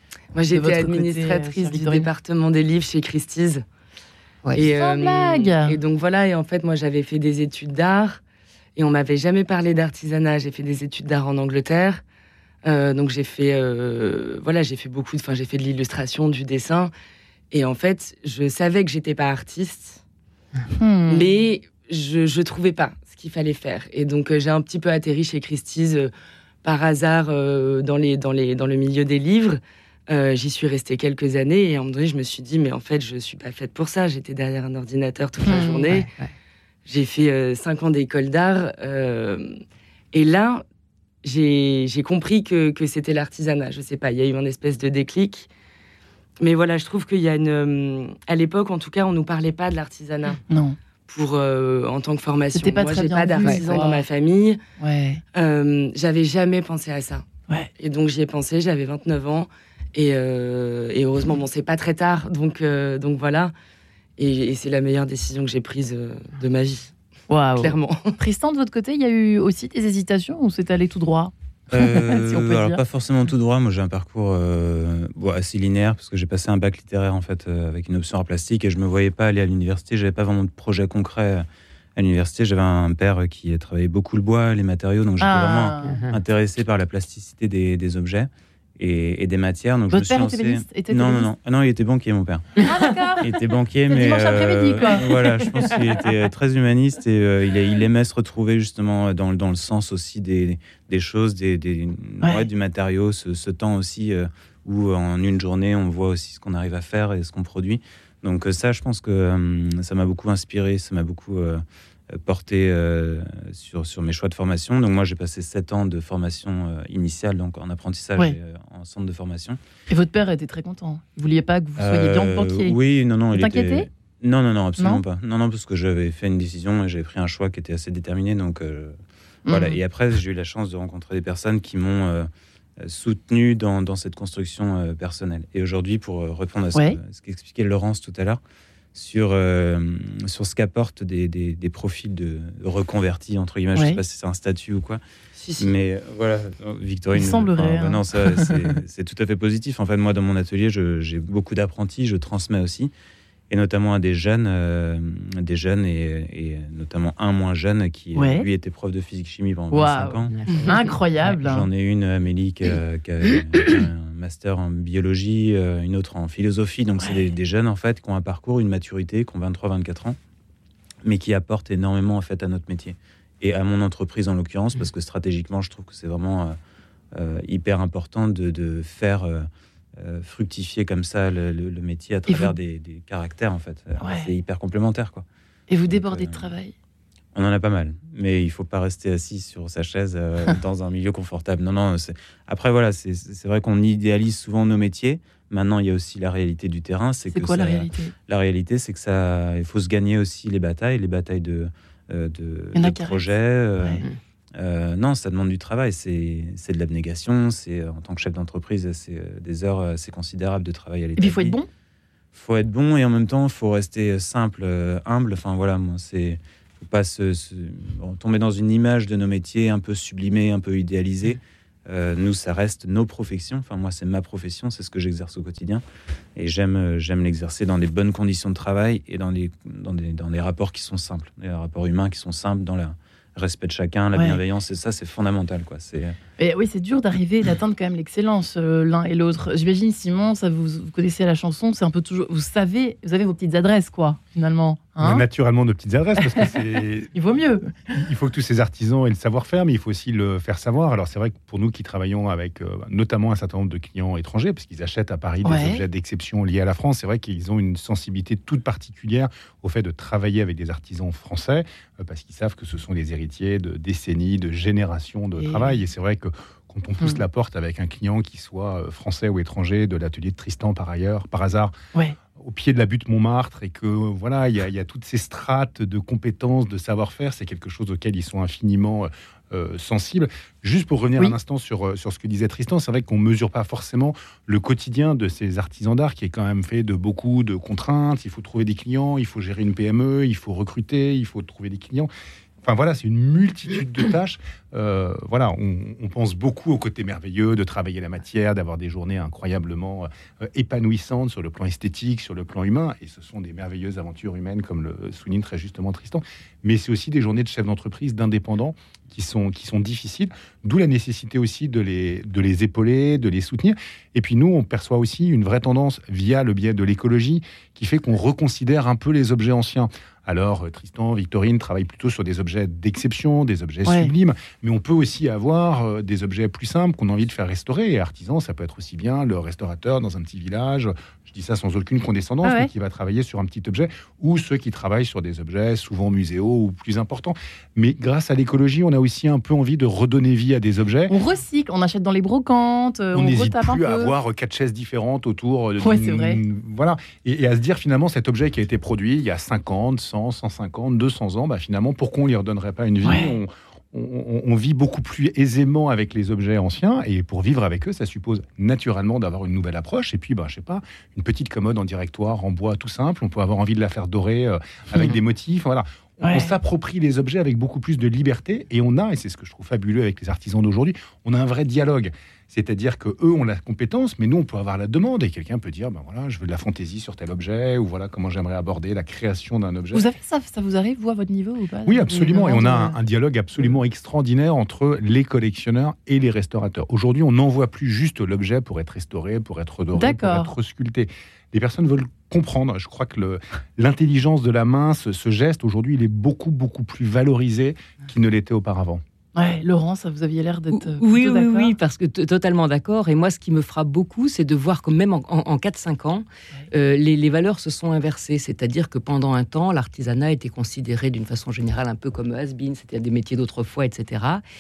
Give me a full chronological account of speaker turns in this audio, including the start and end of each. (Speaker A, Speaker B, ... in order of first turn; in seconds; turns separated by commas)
Speaker A: 0.3-3.6, Speaker B: 0.5-2.1, Speaker A: 4.5-8.2, Speaker B: 4.6-5.8, Speaker A: 8.8-12.0, Speaker A: 12.7-16.9, Speaker A: 17.5-20.0, Speaker B: 20.7-21.3, Speaker A: 21.1-26.1, Speaker A: 26.6-36.1, Speaker B: 35.5-35.9, Speaker C: 35.9-36.3, Speaker A: 36.9-39.6, Speaker A: 40.1-40.6, Speaker A: 41.2-45.5, Speaker A: 46.4-50.4, Speaker B: 50.5-50.8, Speaker A: 51.1-54.6, Speaker B: 52.5-54.0, Speaker C: 53.4-53.7, Speaker B: 54.8-55.2, Speaker A: 55.4-57.3, Speaker A: 57.8-63.5, Speaker A: 64.2-66.9, Speaker B: 67.3-72.8, Speaker A: 67.6-68.2, Speaker D: 71.7-119.6, Speaker B: 85.2-86.0, Speaker C: 85.8-86.2, Speaker B: 89.9-91.3, Speaker B: 92.6-93.3, Speaker B: 93.9-95.8, Speaker B: 119.9-122.8, Speaker D: 121.8-128.9, Speaker B: 123.3-123.9, Speaker B: 129.5-129.8, Speaker D: 129.5-132.3, Speaker D: 132.8-138.4, Speaker D: 138.9-145.0, Speaker A: 145.4-145.7, Speaker D: 145.6-152.9, Speaker B: 147.2-148.5, Speaker D: 153.5-160.3, Speaker B: 158.2-158.5, Speaker B: 159.7-161.7, Speaker C: 160.3-161.3, Speaker D: 161.2-170.2, Speaker D: 171.0-176.6, Speaker D: 177.1-185.2, Speaker B: 182.3-182.6, Speaker B: 184.0-184.3, Speaker B: 185.7-186.7, Speaker D: 185.9-186.6, Speaker D: 187.3-204.0, Speaker B: 197.3-198.1, Speaker B: 202.8-203.2, Speaker D: 204.6-211.6, Speaker B: 211.2-211.7, Speaker D: 212.3-225.8, Speaker D: 226.4-236.2, Speaker B: 234.2-234.4, Speaker B: 236.4-245.2, Speaker E: 245.0-247.2, Speaker B: 246.2-246.5, Speaker B: 247.1-247.8, Speaker E: 247.9-271.7, Speaker B: 255.4-255.8, Speaker B: 265.4-265.8, Speaker E: 272.4-292.1, Speaker E: 292.6-341.1, Speaker B: 332.4-332.7, Speaker B: 341.1-344.1, Speaker E: 343.1-380.1, Speaker B: 345.8-346.4, Speaker B: 353.0-353.3, Speaker B: 366.2-366.5, Speaker B: 379.9-382.9, Speaker E: 381.9-399.0, Speaker B: 389.9-390.5, Speaker B: 399.4-401.7, Speaker C: 400.7-414.4